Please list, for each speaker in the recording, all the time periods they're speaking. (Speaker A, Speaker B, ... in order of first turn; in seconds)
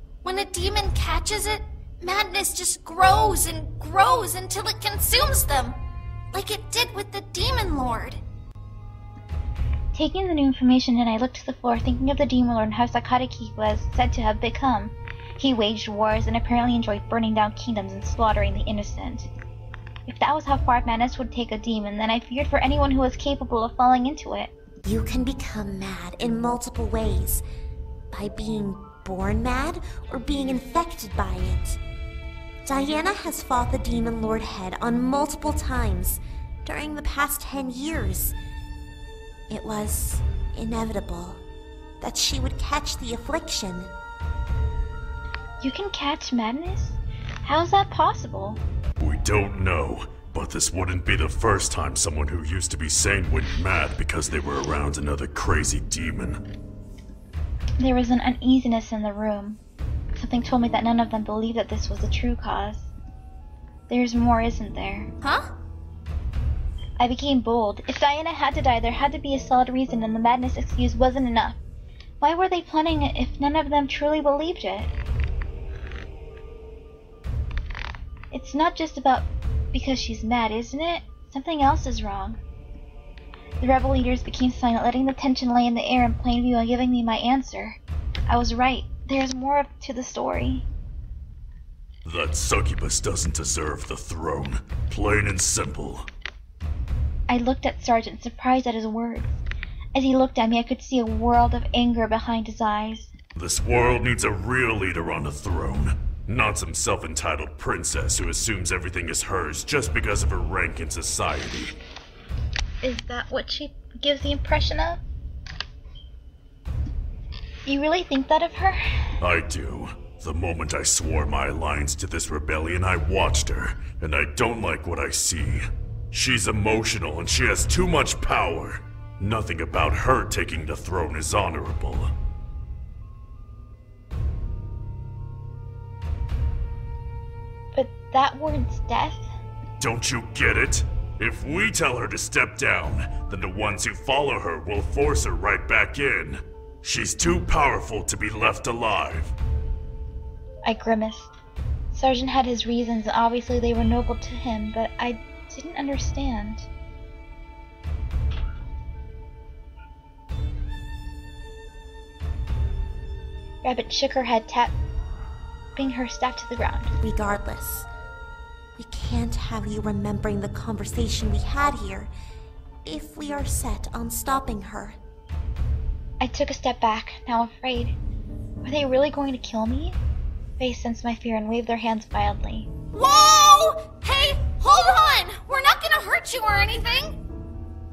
Speaker A: 0.2-5.8, 6.3-8.2, 65.2-65.5, 182.9-187.2
Speaker B: 9.9-19.3, 20.1-24.5, 45.6-48.6, 57.8-59.6, 60.1-62.9, 63.9-65.1, 67.0-71.6, 72.2-74.9, 78.3-82.4, 83.6-90.7, 97.3-99.3, 99.9-103.1, 112.8-115.0, 117.7-118.8, 137.7-139.3, 150.6-151.3, 151.9-156.7, 163.6-164.7, 165.8-166.9, 176.2-178.0, 178.6-180.0, 180.6-182.7
Speaker C: 24.8-27.4, 28.1-31.8, 32.6-38.3, 39.5-41.4, 42.0-43.9, 167.0-167.9, 168.8-172.1, 172.8-175.0
Speaker D: 49.0-56.4, 92.0-96.1, 103.3-111.7, 119.2-132.1, 139.8-149.3